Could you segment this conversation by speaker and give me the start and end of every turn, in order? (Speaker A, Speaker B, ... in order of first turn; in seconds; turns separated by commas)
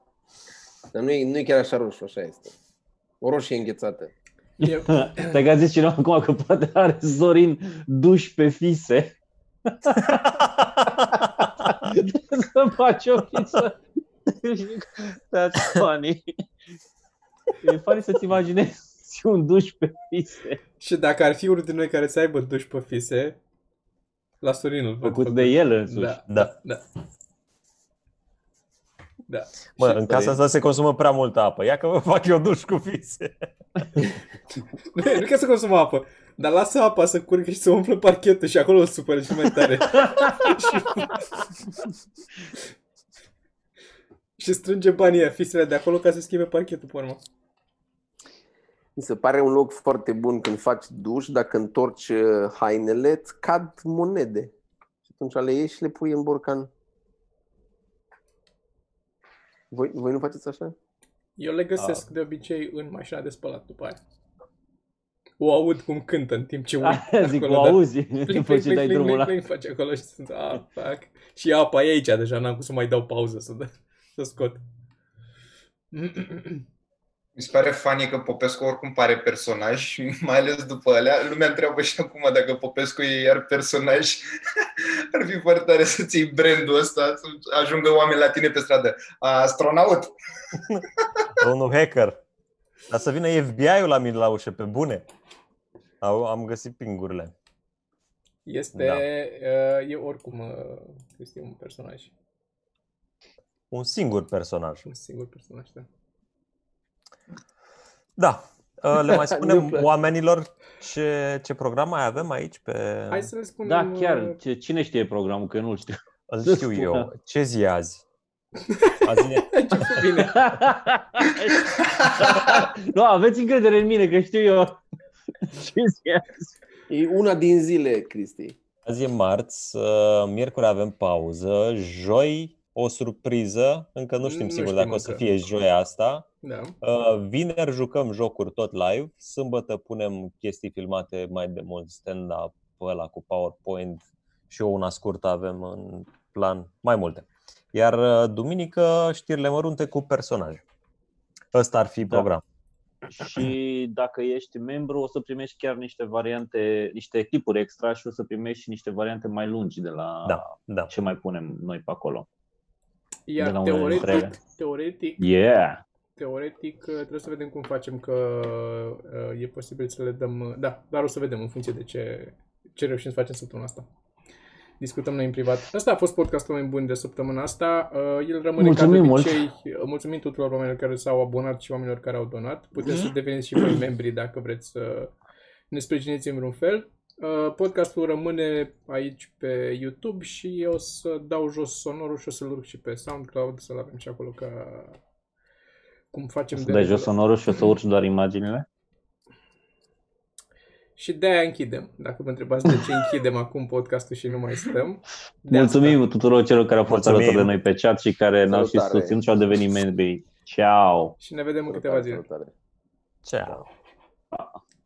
Speaker A: 0.9-2.5, Speaker A: 3.2-4.1, Speaker B: 4.6-5.4, Speaker C: 4.6-9.1, Speaker C: 9.7-10.6, Speaker C: 11.2-16.2, Speaker C: 17.6-20.6, Speaker B: 20.8-23.4, Speaker B: 24.4-26.8, Speaker C: 25.0-26.2, Speaker B: 29.3-30.3, Speaker D: 29.8-33.5, Speaker B: 34.9-41.3, Speaker B: 44.4-47.2, Speaker A: 49.0-54.5, Speaker A: 55.0-56.7, Speaker A: 59.7-60.7, Speaker B: 61.4-64.0, Speaker B: 65.4-74.6, Speaker C: 66.8-69.3, Speaker B: 75.9-76.6, Speaker E: 77.3-84.3, Speaker E: 84.8-90.1, Speaker D: 91.4-92.2, Speaker D: 92.9-95.0, Speaker D: 96.0-97.3, Speaker B: 98.5-102.1, Speaker D: 98.7-99.0, Speaker D: 103.7-104.8, Speaker B: 104.8-105.8, Speaker D: 108.2-113.3, Speaker A: 109.0-109.9, Speaker B: 113.1-114.4, Speaker C: 113.6-117.1, Speaker D: 116.3-118.0, Speaker B: 118.7-119.0, Speaker D: 119.0-120.1, Speaker B: 119.5-120.5, Speaker C: 120.3-124.8, Speaker C: 125.4-126.5, Speaker A: 126.9-128.6, Speaker D: 128.8-136.3, Speaker B: 134.2-135.2, Speaker B: 136.4-136.8, Speaker D: 136.8-150.6, Speaker D: 151.5-152.4, Speaker C: 153.1-162.2, Speaker D: 160.2-160.9, Speaker B: 163.3-165.2, Speaker C: 163.4-164.4, Speaker C: 165.2-165.8, Speaker B: 166.2-173.9, Speaker B: 174.8-185.1, Speaker C: 178.6-179.4, Speaker B: 185.7-195.0, Speaker B: 196.1-197.1, Speaker C: 196.5-198.7, Speaker B: 201.0-206.0, Speaker C: 205.5-211.1, Speaker D: 206.9-207.5, Speaker A: 208.5-209.2, Speaker B: 211.2-212.2, Speaker A: 211.7-212.5, Speaker D: 213.2-213.6, Speaker C: 214.3-214.6